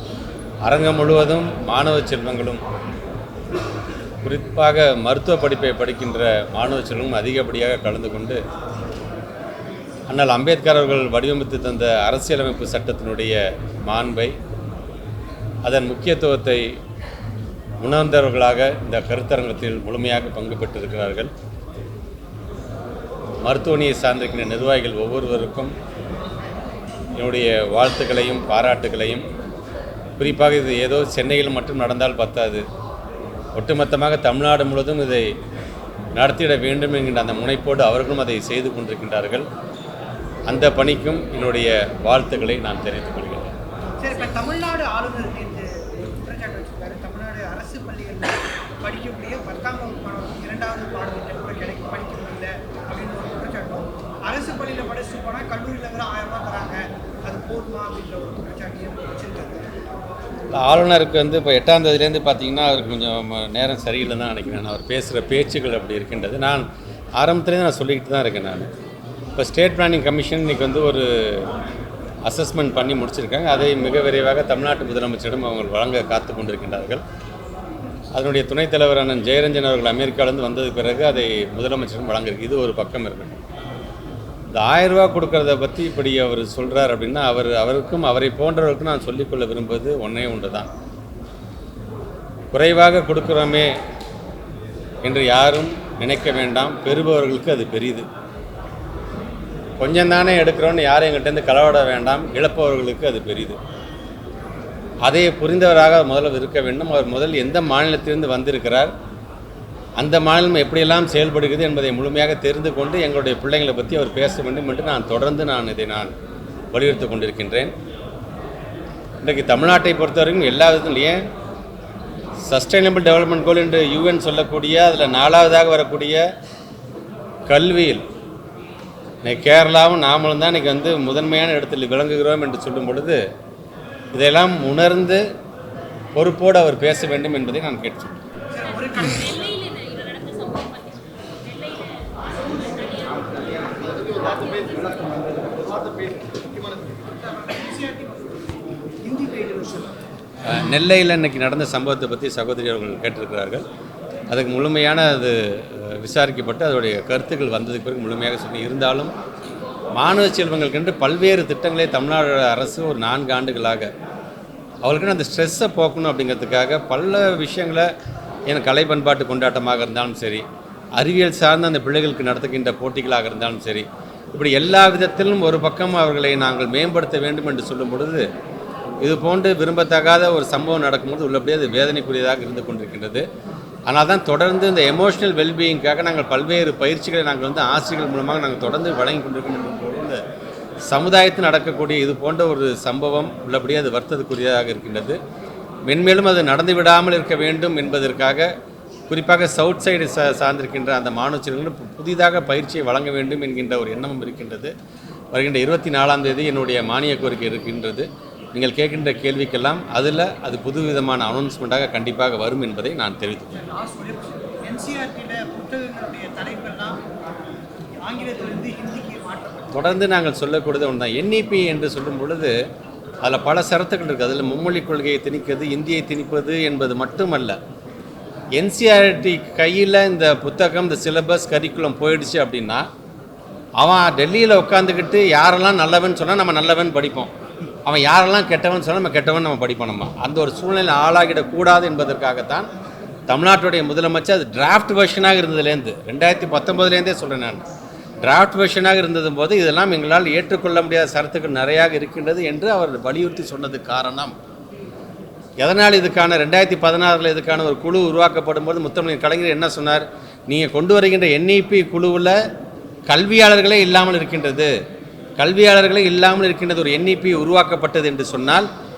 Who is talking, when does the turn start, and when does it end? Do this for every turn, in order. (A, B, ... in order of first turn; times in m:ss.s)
0:00.6-0:02.6 A
0:04.2-0:08.4 A
0:10.1-0:14.3 A
0:15.6-0:16.7 A
0:17.8-0:21.3 A
0:23.4-0:25.7 A
0:27.2-0:29.2 A
0:30.2-0:32.6 A
0:33.5-0:35.3 A
0:36.2-0:39.4 A
0:40.5-0:43.5 A
0:44.0-0:59.6 B
1:00.5-1:08.7 A
1:09.4-1:11.5 A
1:12.2-1:17.0 A
1:18.1-1:23.4 A
1:24.5-1:30.7 A
1:32.5-1:33.7 A
1:35.0-1:38.1 A
1:39.8-1:43.6 A
1:45.0-1:48.9 A
1:50.0-1:56.1 A
1:56.7-1:57.7 A
1:59.2-2:01.2 A
2:02.4-2:06.2 A
2:07.5-2:08.0 A
2:09.2-2:13.2 A
2:14.1-2:15.2 A
2:16.1-2:18.1 A
2:18.5-2:19.7 B
2:19.6-2:21.9 C
2:22.4-2:30.0 B
2:22.8-2:23.2 C
2:30.4-2:33.6 A
2:34.3-2:39.1 A
2:39.9-2:43.9 A
2:44.8-2:47.9 A
2:48.5-2:50.4 A
2:51.0-2:58.3 A
2:59.0-3:03.2 A
3:03.9-3:10.2 A
3:10.9-3:15.2 A
3:15.9-3:18.5 A
3:19.1-3:24.7 A
3:25.3-3:33.6 A
3:33.5-3:37.0 B
3:38.0-3:40.0 B
3:39.7-3:42.5 A
3:43.2-3:47.6 A
3:48.6-3:52.9 A
3:53.8-3:57.3 A
3:57.8-4:02.7 A
4:03.3-4:07.6 A
4:08.2-4:14.4 A
4:15.6-4:22.4 A
4:23.1-4:24.7 A
4:25.4-4:28.7 A